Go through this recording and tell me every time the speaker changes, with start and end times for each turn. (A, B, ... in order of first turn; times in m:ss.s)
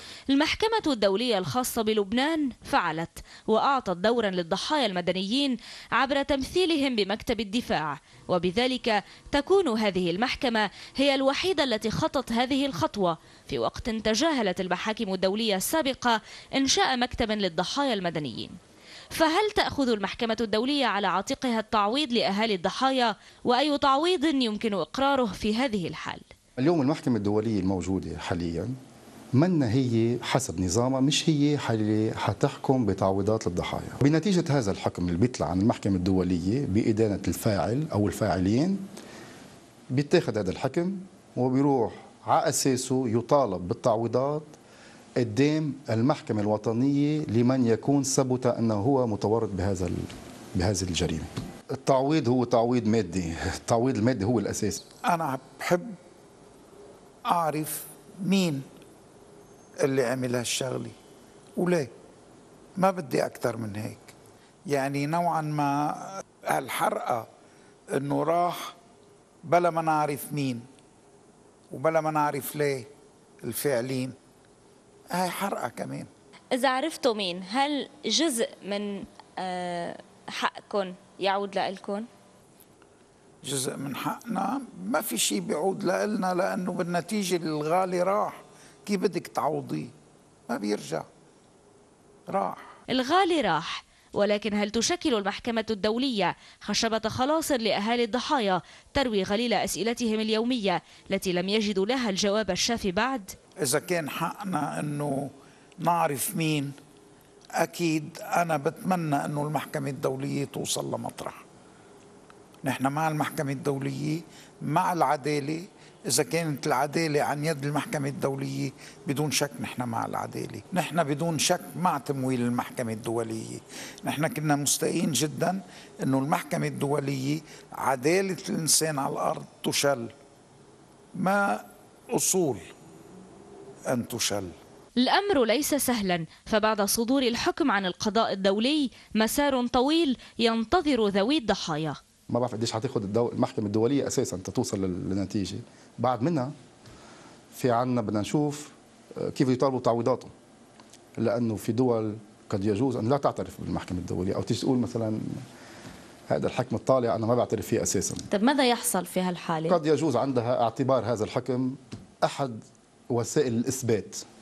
0:00.3-0:18.5 A
0:19.1-0:26.3 A
0:26.6-0:28.7 B
0:29.4-0:38.8 B
0:39.9-0:44.5 B
0:45.2-0:54.8 B
0:55.0-0:55.9 C
0:57.3-0:58.6 C
0:59.8-1:00.9 C
1:01.6-1:01.9 C
1:02.8-1:04.1 C
1:04.7-1:07.2 C
1:07.9-1:08.7 C
1:09.4-1:10.6 C
1:11.7-1:12.9 C
1:13.4-1:14.1 C
1:15.1-1:16.1 C
1:16.5-1:22.1 A
1:23.4-1:29.9 C
1:30.5-1:31.0 C
1:32.3-1:32.6 C
1:32.9-1:43.3 A
1:43.6-1:45.3 C
1:45.8-1:46.7 C
1:47.6-1:51.4 C
1:52.6-2:10.1 C
2:11.2-2:12.7 C
2:13.9-2:14.5 C
2:15.0-2:22.0 A
2:22.3-2:26.5 B
2:27.5-2:30.3 B
2:31.2-2:35.4 B
2:36.3-2:38.3 B
2:38.3-2:39.8 A
2:39.7-2:44.2 B